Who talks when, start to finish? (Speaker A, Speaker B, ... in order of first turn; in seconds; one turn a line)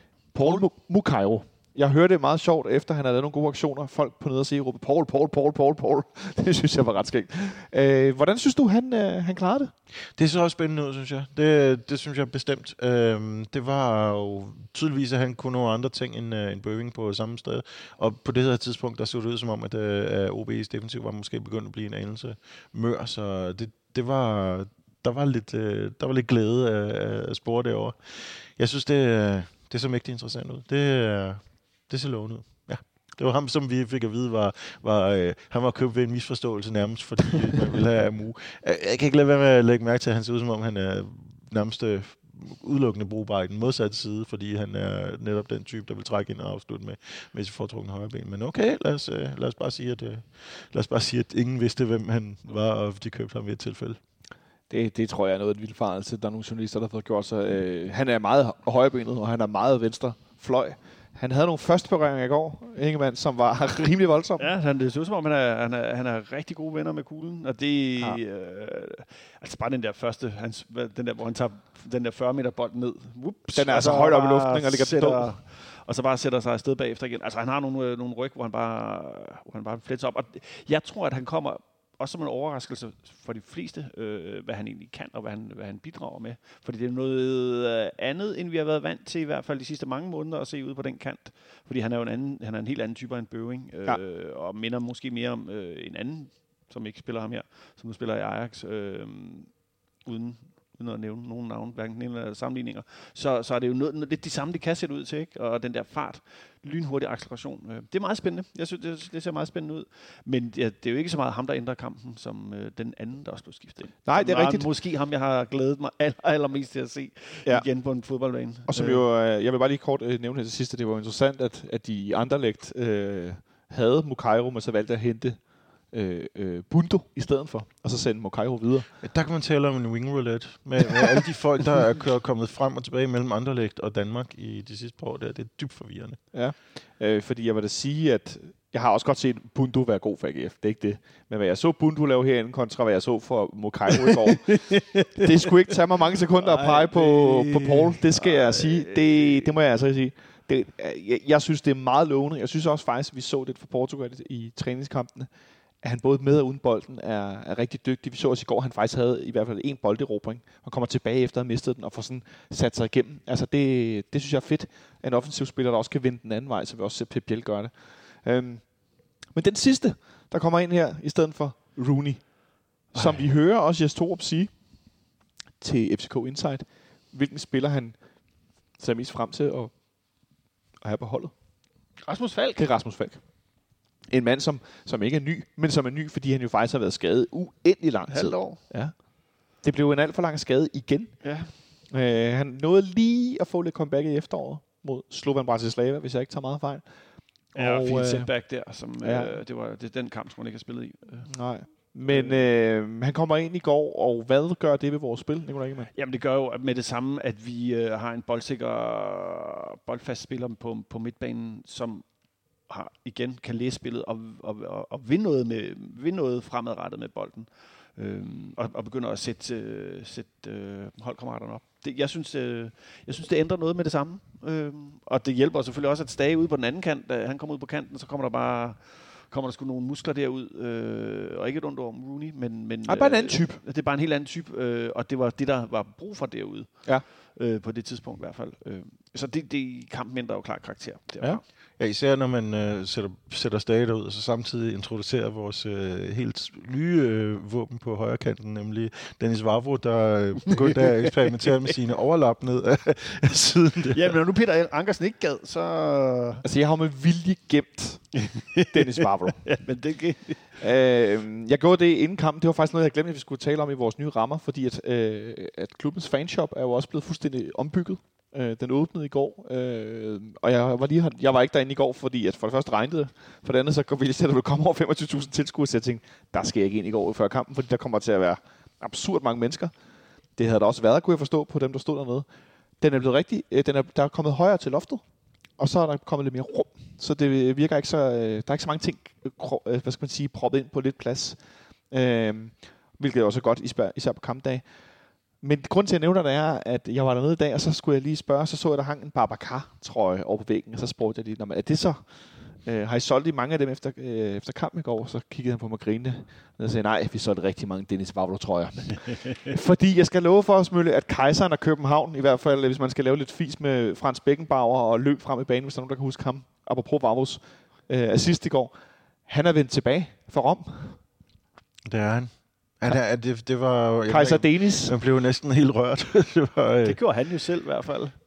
Speaker A: 0.3-9.7
Speaker B: 10.2-54.0
Speaker A: 54.7-64.5
Speaker C: 64.4-119.0
Speaker A: 73.5-75.3
Speaker A: 114.0-114.7
Speaker A: 118.7-128.9
Speaker B: 129.0-136.2
Speaker A: 136.3-155.3
Speaker C: 144.5-145.2
Speaker C: 146.4-149.5
Speaker A: 155.8-174.5
Speaker C: 172.9-173.2
Speaker A: 175.6-178.0
Speaker A: 178.8-179.7
Speaker A: 180.8-181.3
Speaker C: 182.0-182.6
Speaker A: 182.6-183.2
Speaker A: 184.1-196.8
Speaker C: 188.1-188.6
Speaker C: 191.2-191.6
Speaker A: 197.5-198.3
Speaker C: 197.6-202.5
Speaker A: 198.8-199.4
Speaker A: 201.2-205.9
Speaker C: 205.9-212.1
Speaker C: 212.6-241.4
Speaker A: 232.9-233.6
Speaker B: 241.8-254.2
Speaker C: 250.6-251.1
Speaker C: 253.9-256.4
Speaker A: 256.4-259.6
Speaker C: 258.3-258.8
Speaker C: 259.4-260.6
Speaker A: 260.6-279.7
Speaker A: 280.4-282.2
Speaker A: 282.8-285.0
Speaker A: 285.6-291.4
Speaker A: 291.9-294.7
Speaker A: 295.4-318.7
Speaker A: 319.3-321.0
Speaker B: 321.9-327.0
Speaker A: 324.1-324.9
Speaker C: 326.8-328.2